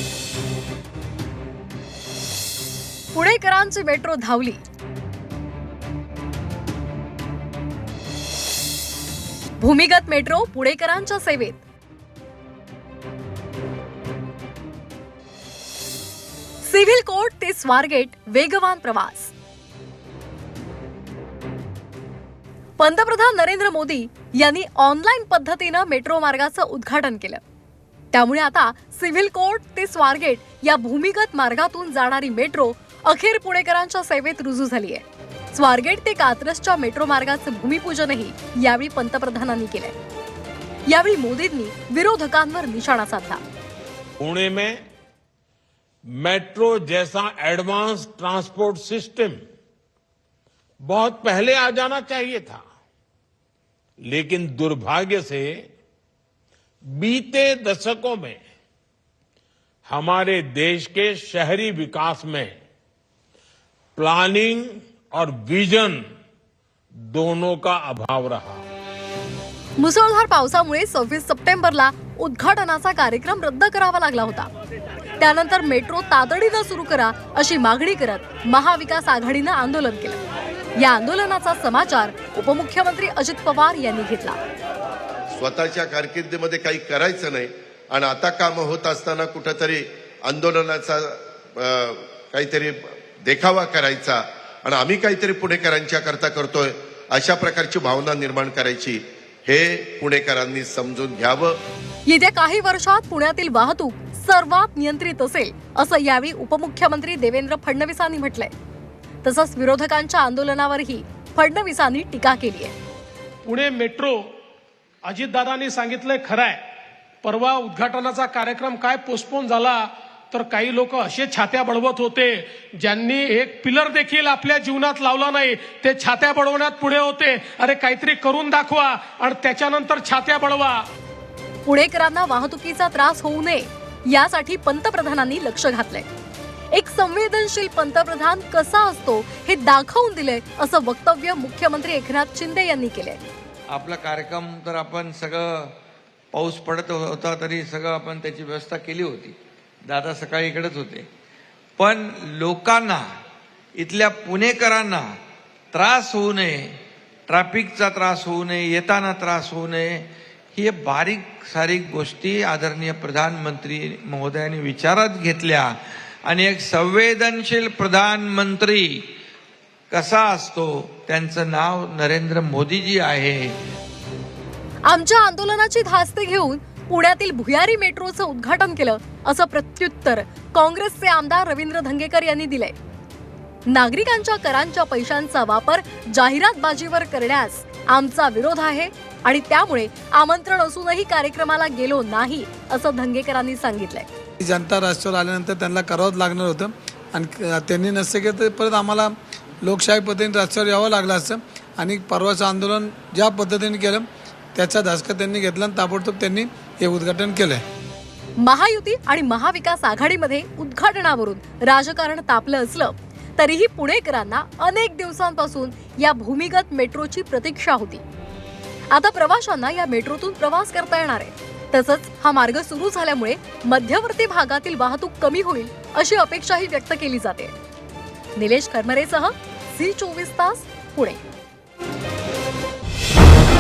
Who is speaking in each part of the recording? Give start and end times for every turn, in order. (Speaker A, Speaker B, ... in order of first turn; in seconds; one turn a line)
Speaker A: 3.1-4.6
Speaker A: 9.6-11.6
Speaker A: 16.6-19.3
Speaker A: 22.8-27.4
Speaker A: 28.1-40.0
Speaker A: 40.9-43.4
Speaker B: 44.2-44.8
Speaker B: 46.1-49.4
Speaker B: 50.8-52.6
Speaker B: 54.0-55.6
Speaker B: 56.9-58.4
Speaker B: 59.9-62.5
Speaker B: 64.0-66.0
Speaker B: 67.0-68.6
Speaker A: 69.8-74.5
Speaker A: 75.2-80.2
Speaker A: 80.8-84.4
Speaker C: 85.3-101.6
Speaker A: 102.1-108.5
Speaker A: 109.2-112.8
Speaker D: 113.5-114.3
Speaker D: 115.0-116.6
Speaker D: 117.2-130.8
Speaker A: 131.7-136.1
Speaker A: 136.7-143.2
Speaker E: 143.7-145.7
Speaker E: 146.3-149.4
Speaker E: 149.9-151.1
Speaker E: 151.8-153.0
Speaker E: 153.8-155.1
Speaker E: 155.7-156.8
Speaker E: 157.3-165.7
Speaker E: 166.3-169.0
Speaker E: 169.9-173.6
Speaker A: 174.9-182.8
Speaker A: 183.7-194.1
Speaker F: 194.4-207.6
Speaker A: 208.4-218.0
Speaker A: 218.9-227.6
Speaker A: 228.4-231.2